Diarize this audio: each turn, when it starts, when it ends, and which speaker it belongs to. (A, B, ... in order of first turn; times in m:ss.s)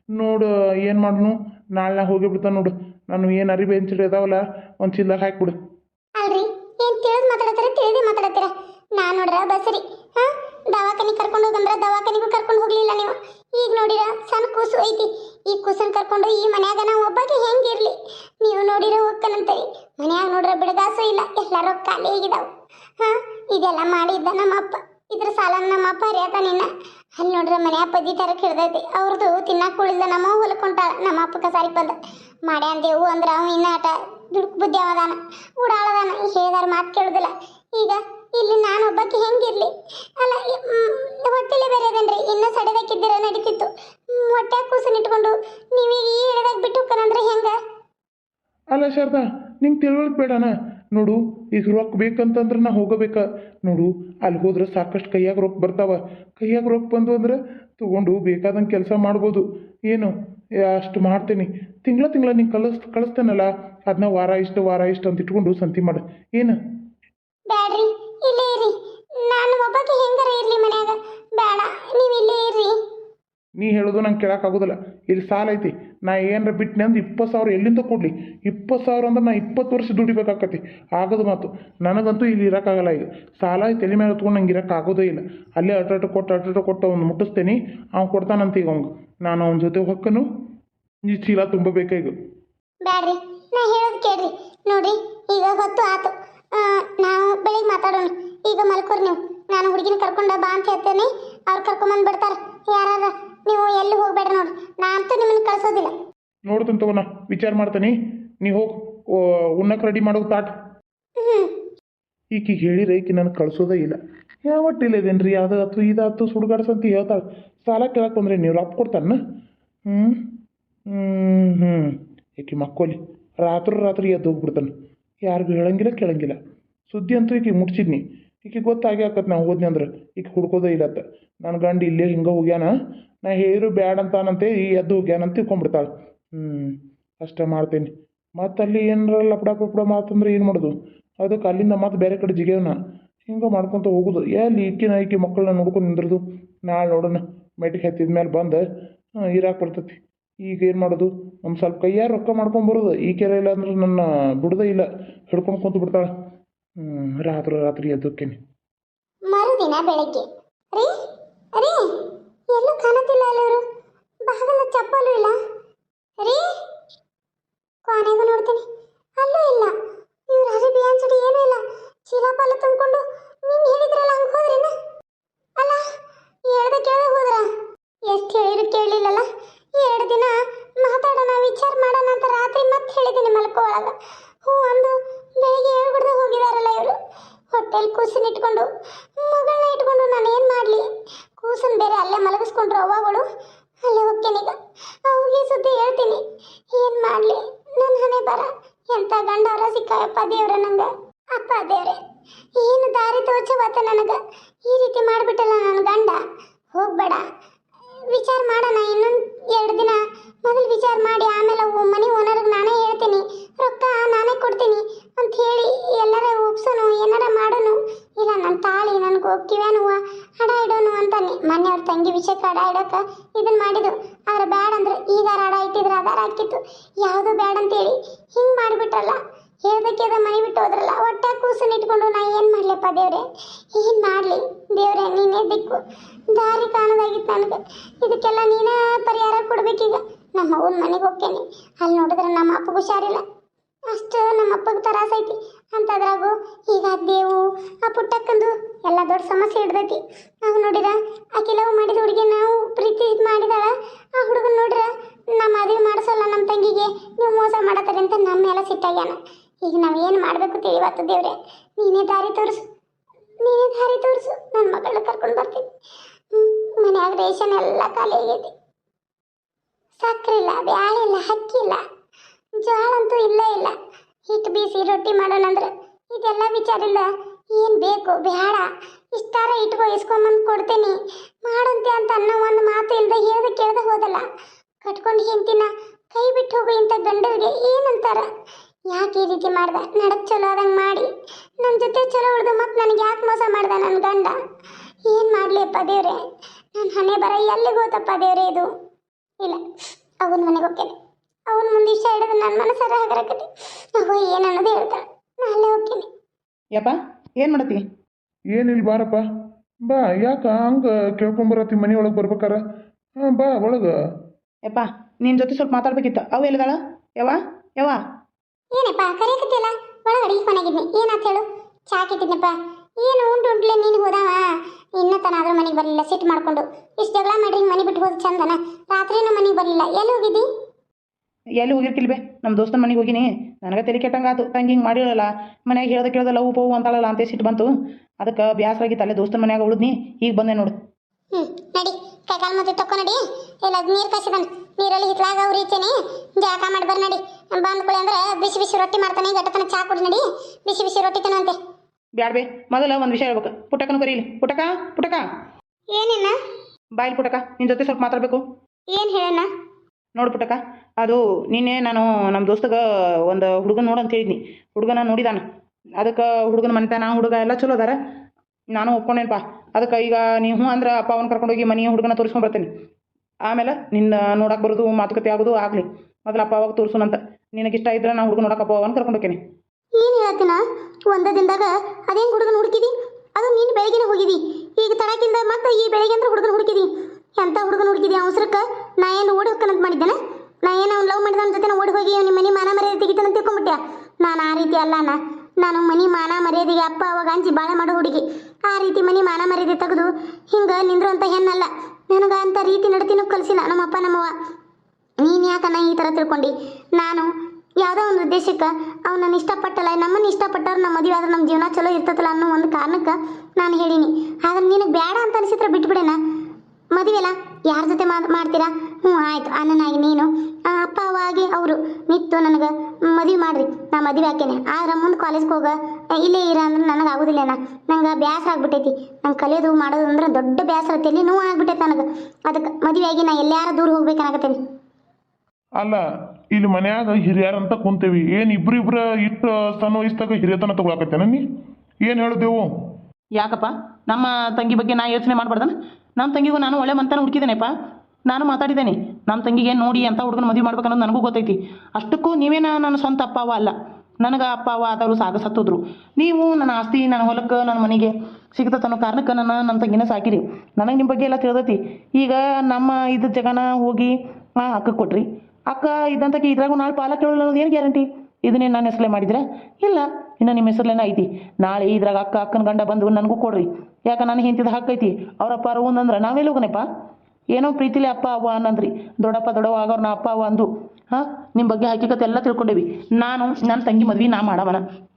0:00.1-0:05.5 A
0:06.2-0:47.5 B
0:48.7-1:00.1 A
1:00.7-1:06.6 A
1:07.5-1:12.7 B
1:13.6-1:30.2 A
1:31.1-1:32.1 A
1:32.8-1:45.9 B
1:46.5-1:50.5 A
1:51.2-1:51.5 B
1:52.3-1:59.2 A
1:59.9-2:00.2 A
2:00.9-2:04.7 A
2:05.2-2:06.4 A
2:06.9-2:12.7 A
2:13.2-2:22.8 A
2:23.3-2:28.6 A
2:29.2-2:36.1 A
2:36.8-2:38.4 A
2:39.3-2:40.9 B
2:41.6-2:41.8 B
2:42.5-2:43.6 B
2:44.3-2:45.3 B
2:47.9-2:48.6 B
2:49.2-2:49.7 B
2:50.3-2:54.7 B
2:56.5-2:57.4 B
2:58.1-2:59.2 B
2:59.8-3:07.0 B
3:07.5-3:08.7 B
3:09.2-3:10.8 B
3:11.4-3:13.2 B
3:13.8-3:16.2 B
3:16.7-3:22.0 B
3:22.6-3:26.2 B
3:26.7-3:27.2 B
3:28.1-3:53.2 B
3:53.7-4:03.2 B
4:03.9-4:22.6 B
4:23.4-4:25.6 B
4:26.3-4:28.5 B
4:30.0-4:31.8 B
4:32.6-4:33.7 B
4:34.3-4:44.2 B
4:44.8-4:48.3 B
4:48.9-4:51.1 B
4:51.6-4:54.3 B
4:55.1-4:56.2 B
4:56.7-4:58.7 B
5:00.2-5:00.9 B
5:01.5-5:06.1 B
5:06.7-5:07.8 C
5:08.5-5:09.2 A
5:09.8-5:12.6 A
5:13.2-5:13.9 A
5:14.6-5:18.0 C
5:18.7-5:24.4 B
5:25.0-5:30.4 B
5:31.6-5:40.7 C
5:41.3-5:51.6 B
5:52.2-5:55.2 C
5:55.9-5:56.3 B
5:57.0-5:58.4 C
5:58.9-5:59.5 B
6:00.2-6:05.4 C
6:06.0-6:08.0 C
6:08.7-6:12.7 C
6:13.4-6:19.4 C
6:20.0-6:44.3 B
6:45.2-6:47.3 B
6:47.8-6:56.2 B
6:57.0-7:14.6 B
7:16.5-7:21.4 A
7:22.0-7:22.7 A
7:23.4-7:27.7 C
7:28.3-7:56.8 C
7:57.5-8:04.8 C